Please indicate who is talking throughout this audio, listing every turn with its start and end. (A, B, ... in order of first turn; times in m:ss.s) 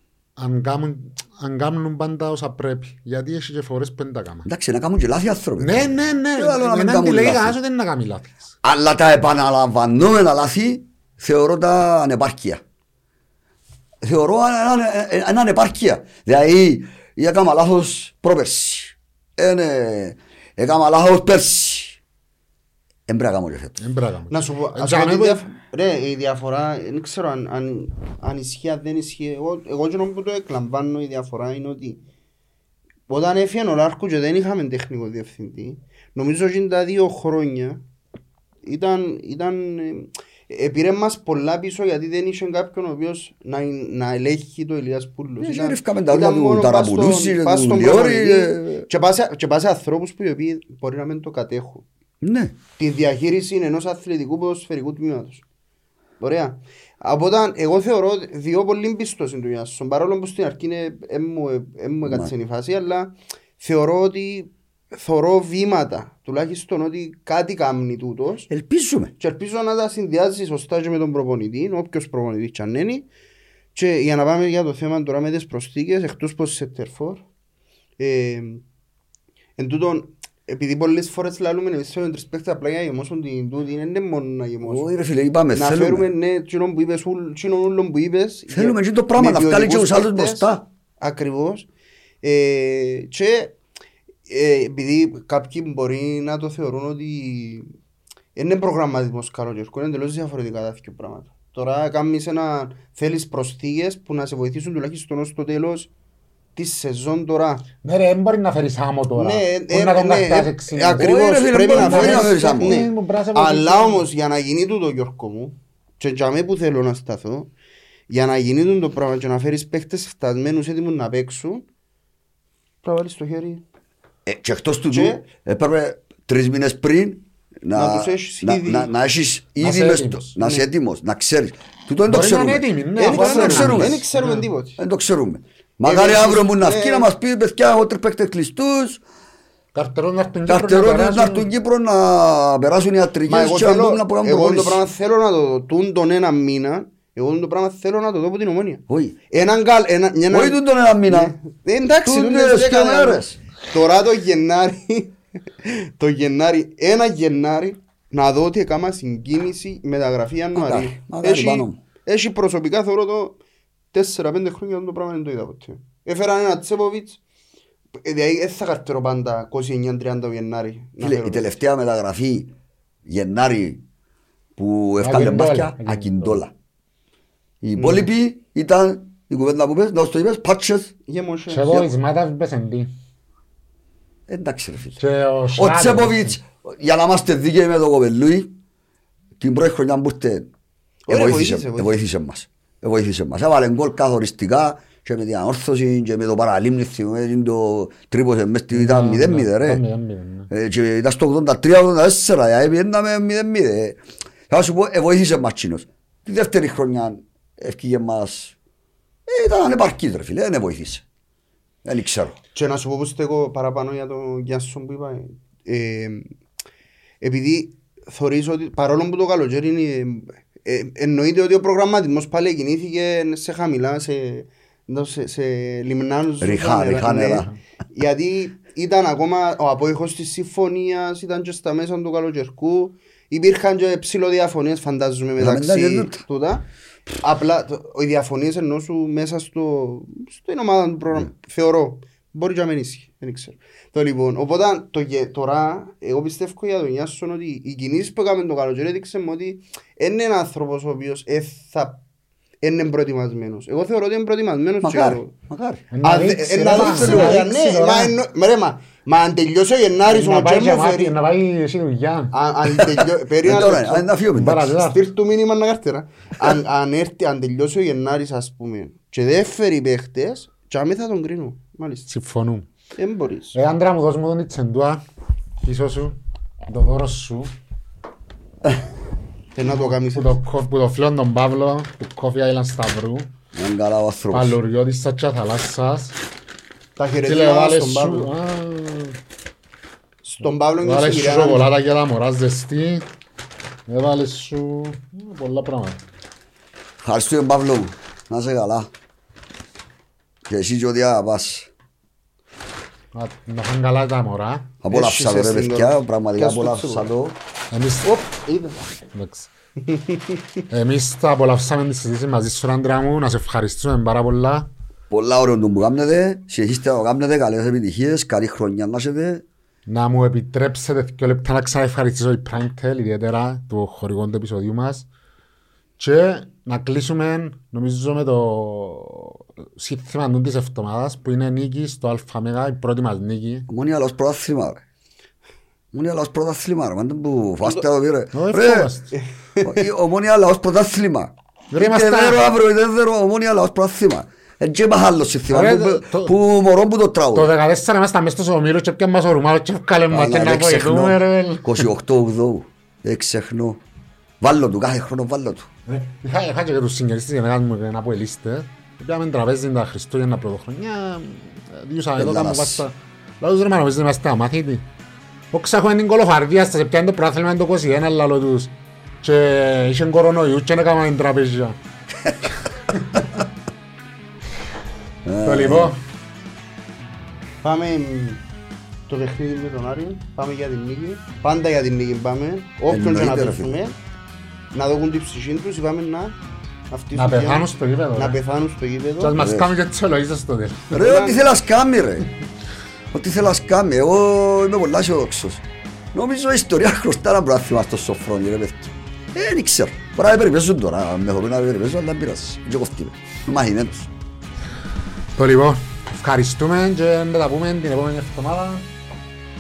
0:00.4-0:04.5 A
0:04.5-0:07.6 B
0:05.6-0:08.4 A
0:08.6-0:12.6 B
0:14.0-0:22.0 B
0:23.1-0:23.8 B
0:23.8-0:25.4 A
0:24.3-0:32.0 C
0:33.1-0:37.8 C
0:38.6-0:51.8 C
0:45.4-0:48.9 B
0:52.2-0:52.6 B
0:52.8-0:55.4 C
0:56.2-1:08.5 C
1:02.0-1:02.3 B
1:08.5-1:09.1 B
1:09.2-1:13.1 C
1:13.8-1:17.2 C
1:18.0-1:18.6 C
1:19.6-1:24.9 C
1:24.6-1:26.1 B
1:25.5-1:31.7 C
1:28.5-1:30.6 B
1:32.2-1:33.6 C
1:34.3-1:37.7 C
1:38.4-1:45.9 C
1:46.6-1:47.7 C
1:47.8-1:51.2 A
1:49.2-1:57.5 C
1:50.7-1:52.8 B
1:51.7-1:54.0 A
1:58.1-2:01.6 C
2:02.8-2:03.6 C
2:04.3-2:14.0 B
2:04.9-2:05.2 C
2:07.8-2:08.9 C
2:09.6-2:10.4 A
2:10.4-2:10.7 C
2:12.1-2:14.4 A
2:13.0-2:14.8 C
2:14.8-2:19.0 B
2:15.8-2:17.1 C
2:19.7-2:21.5 A
2:20.5-2:24.8 B
2:23.3-2:43.4 C
2:28.9-2:29.2 B
2:30.3-2:31.4 B
2:32.0-2:33.4 B
2:40.6-2:41.8 B
2:43.9-2:47.2 C
2:48.0-2:51.5 C
2:51.0-2:52.5 B
2:53.1-2:53.8 B
2:54.6-2:56.5 B
2:55.0-2:56.4 A
2:57.6-3:00.9 B
3:01.1-3:01.9 C
3:01.5-3:02.9 A
3:04.3-3:05.0 B
3:05.0-3:06.4 A
3:05.6-3:08.5 B
3:09.4-3:10.5 B
3:11.1-3:11.9 C
3:11.1-3:19.8 B
3:18.7-3:20.5 A
3:20.5-3:28.6 B
3:29.3-3:31.0 B
3:31.8-3:32.4 B
3:32.6-3:36.3 C
3:37.2-3:56.7 C
3:46.4-3:47.5 B
3:55.4-3:56.2 B
3:57.2-4:12.0 C
4:12.6-4:15.4 C
4:14.8-4:15.9 B
4:15.9-4:18.2 A
4:16.0-4:21.2 C
4:16.7-4:17.5 B
4:20.1-4:22.3 A
4:22.3-4:24.1 C
4:23.4-4:24.7 B
4:24.3-4:25.0 A
4:24.8-4:32.1 C
4:32.1-4:32.7 A
4:33.0-4:33.6 C
4:33.5-4:35.0 A
4:35.6-4:36.2 A
4:36.7-4:37.5 A
4:39.6-4:40.4 C
4:39.6-4:43.3 A
4:43.5-4:44.6 B
4:44.3-4:46.2 A
4:47.0-4:48.3 C
4:47.3-4:49.2 A
4:50.2-4:51.7 C
4:50.8-4:53.1 A
4:53.9-4:56.0 A
4:57.0-4:58.9 B
5:00.5-5:01.7 B
5:03.2-5:04.7 A
5:04.8-5:07.4 B
5:04.9-5:07.1 C
5:07.7-5:08.3 A
5:08.2-5:08.8 C
5:09.1-5:09.5 A
5:09.9-5:10.2 C
5:10.7-5:14.7 A
5:15.1-5:19.4 B
5:19.9-5:25.1 A
5:26.0-5:33.7 A
5:33.7-5:34.8 B
5:35.9-5:38.9 B
5:38.3-5:39.1 A
5:39.1-5:39.8 C
5:39.6-5:47.5 B
5:41.7-5:42.4 A
5:45.5-5:46.3 A
5:47.3-5:51.9 A
5:50.1-5:53.8 B
5:54.4-5:55.7 B
5:55.9-6:04.8 A
6:02.2-6:02.8 B
6:05.5-6:08.7 A
6:09.2-6:11.8 A
6:15.2-6:16.0 B
6:15.4-6:16.0 A
6:17.6-6:18.4 C
6:19.1-6:24.0 C
6:22.9-6:23.8 B
6:24.7-6:26.4 C
6:26.9-6:29.4 C
6:27.1-6:28.4 A
6:29.2-6:31.0 A
6:29.4-6:29.7 B
6:30.9-6:32.3 B
6:30.9-6:31.4 C
6:33.1-6:35.6 B
6:36.1-6:44.1 B
6:45.4-6:48.9 A